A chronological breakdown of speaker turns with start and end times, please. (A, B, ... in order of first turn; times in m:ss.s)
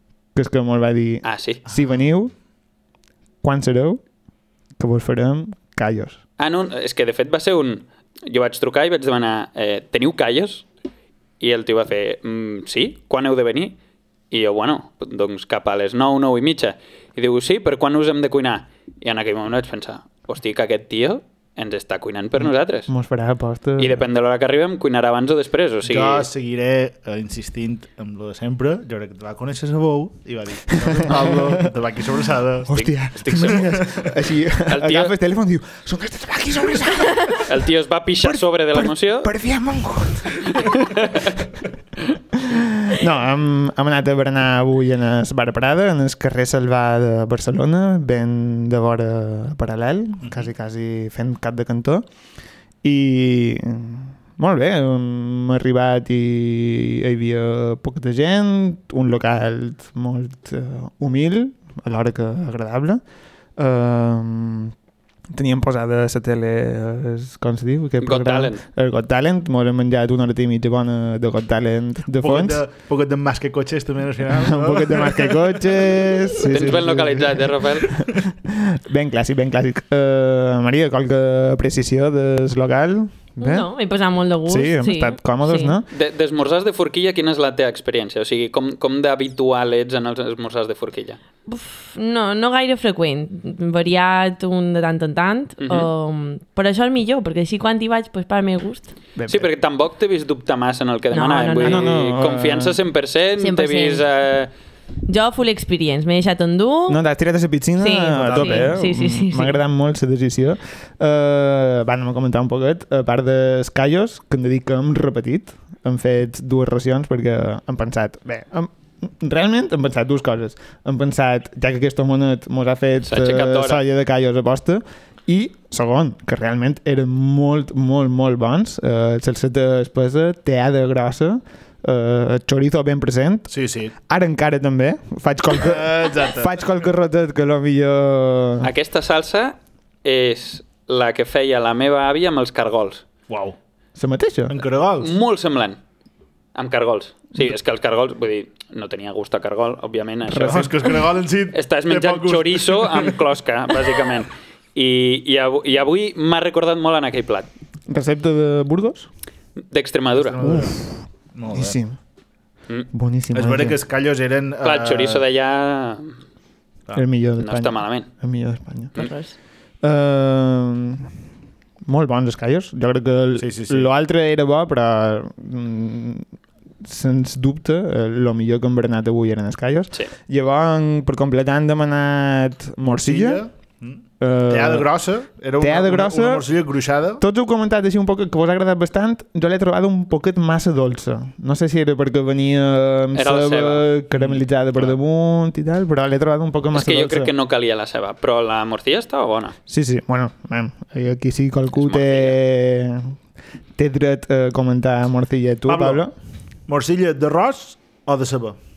0:00.3-0:02.3 A
0:01.2-0:01.6 B
0:03.4-0:04.0 A
0:04.8-0:06.2 A
0:06.4-0:10.6 B
0:11.4-0:13.8 B
0:14.3-0:22.9 B
0:22.4-0:24.0 A
0:23.8-0:26.3 B
0:25.8-0:32.7 C
0:30.8-0:31.7 A
0:32.6-0:37.6 A
0:32.7-0:33.8 B
0:33.3-0:34.1 C
0:34.7-0:35.1 B
0:37.3-0:39.3 B
0:38.2-0:40.6 A
0:40.5-0:41.3 B
0:42.4-0:52.0 A
0:52.8-1:03.0 A
1:03.6-1:04.7 A
1:05.3-1:12.6 A
1:08.0-1:08.6 B
1:12.1-1:15.4 C
1:14.4-1:23.7 A
1:16.4-1:18.0 B
1:23.4-1:25.8 D
1:24.4-1:25.9 A
1:25.9-1:31.2 B
1:31.4-1:38.9 D
1:35.6-1:35.9 B
1:39.2-1:39.5 A
1:39.3-1:44.5 B
1:41.1-1:41.9 D
1:41.6-1:42.8 A
1:43.4-1:44.0 D
1:45.0-1:47.0 D
1:46.9-2:13.5 A
1:47.8-1:49.6 D
2:03.0-2:03.8 B
2:13.5-2:13.9 C
2:14.1-2:18.7 A
2:15.6-2:16.5 C
2:18.6-2:23.0 B
2:23.3-2:23.6 C
2:24.0-2:24.6 A
2:24.5-2:25.1 C
2:25.0-2:25.8 B
2:26.5-2:31.0 B
2:30.3-2:30.8 A
2:30.4-2:33.1 C
2:31.5-2:37.5 B
2:37.9-2:39.1 A
2:39.7-2:40.4 B
2:40.1-2:40.8 C
2:40.4-2:41.0 A
2:41.3-2:41.8 C
2:41.5-2:42.0 A
2:42.9-2:43.8 A
2:43.3-2:45.2 C
2:44.6-2:46.1 B
2:46.9-2:49.0 A
2:47.4-2:48.1 B
2:49.0-2:49.3 D
2:49.8-2:51.1 A
2:51.8-2:56.3 A
2:53.4-2:53.9 C
2:56.8-3:03.4 A
3:02.9-3:07.2 C
3:04.2-3:04.9 A
3:05.6-3:06.4 A
3:07.2-3:17.3 A
3:13.1-3:13.9 B
3:14.2-3:15.0 C
3:16.7-3:19.5 B
3:19.7-3:23.1 A
3:21.7-3:22.4 B
3:23.8-3:26.1 A
3:25.6-3:26.0 C
3:26.7-3:28.6 C